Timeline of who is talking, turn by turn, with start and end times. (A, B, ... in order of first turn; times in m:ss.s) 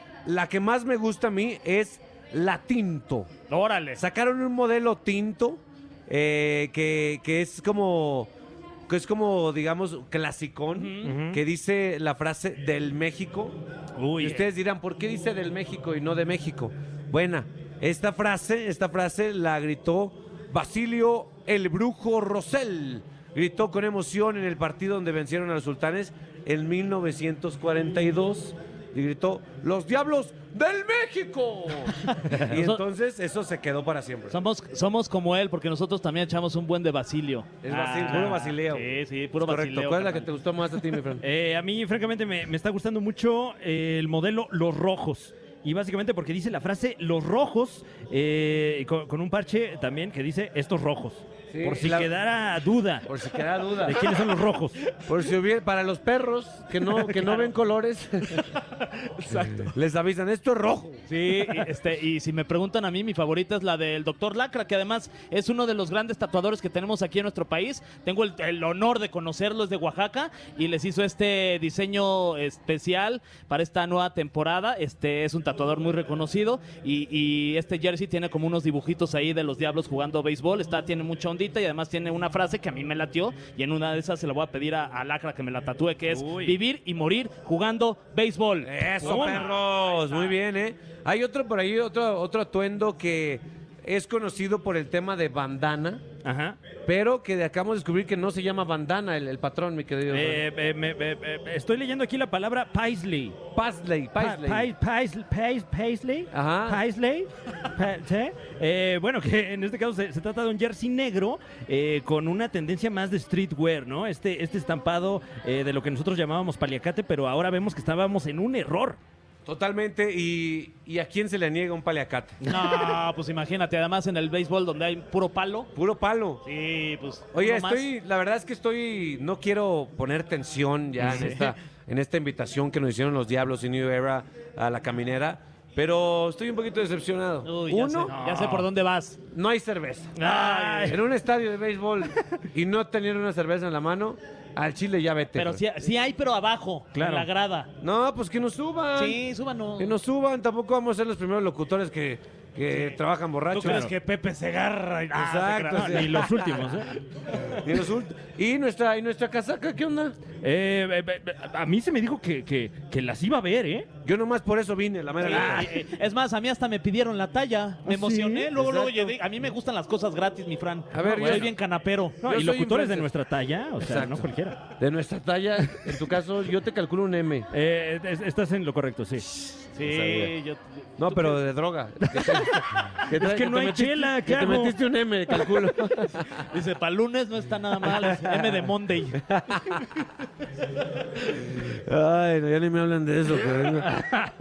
0:00.2-0:03.3 A
0:03.5-0:04.0 B
0:04.0-0:08.3 A
0:08.9-0:13.6 A
0:10.7-0:11.1 B
0:11.0-0:11.4 C
0:14.0-0:14.4 C
0:14.2-0:34.4 A
0:32.5-0:32.8 B
0:34.3-0:40.3 B
0:37.6-0:41.2 A
0:41.2-0:53.1 C
0:51.5-0:52.1 A
0:53.1-0:54.1 A
0:53.8-0:54.9 C
0:55.0-0:58.5 A
0:59.3-1:01.1 A
1:01.1-1:29.5 B
1:26.1-1:26.6 C
1:28.6-1:36.0 A
1:29.0-1:29.5 C
1:36.2-1:36.6 C
1:36.8-1:40.4 A
1:40.1-1:43.4 C
1:43.5-1:44.7 A
1:44.2-1:59.0 C
1:46.3-1:46.8 A
1:59.4-2:02.4 A
2:02.4-2:05.7 B
2:05.7-2:06.4 A
2:06.4-2:07.8 B
2:07.3-2:18.1 A
2:11.0-2:11.4 C
2:11.0-2:11.5 B
2:17.4-2:19.2 B
2:18.0-2:18.7 C
2:19.3-2:20.2 A
2:20.2-2:21.0 B
2:20.2-2:21.0 C
2:20.9-2:25.6 A
2:25.3-2:27.7 B
2:26.9-2:27.3 C
2:27.8-2:29.2 A
2:28.9-2:30.0 B
2:29.8-2:33.9 A
2:32.7-2:33.0 B
2:33.5-2:36.6 B
2:33.6-2:33.9 C
2:35.1-2:36.5 A
2:35.9-2:36.9 C
2:37.5-2:40.2 A
2:40.4-2:43.9 C
2:44.0-2:45.7 A
2:45.2-2:52.2 B
2:45.2-2:45.7 C
2:47.8-2:48.5 C
2:48.6-2:49.1 A
2:50.9-2:51.5 A
2:51.0-2:51.5 C
2:52.2-2:54.7 C
2:52.2-2:53.1 A
2:53.8-2:57.5 A
2:57.5-2:59.2 C
2:59.7-3:01.4 B
2:59.8-3:00.3 A
3:01.0-3:06.4 A
3:02.2-3:02.5 C
3:03.1-3:04.8 C
3:06.5-3:09.2 B
3:08.0-3:08.5 A
3:09.1-3:10.0 A
3:11.3-3:14.0 A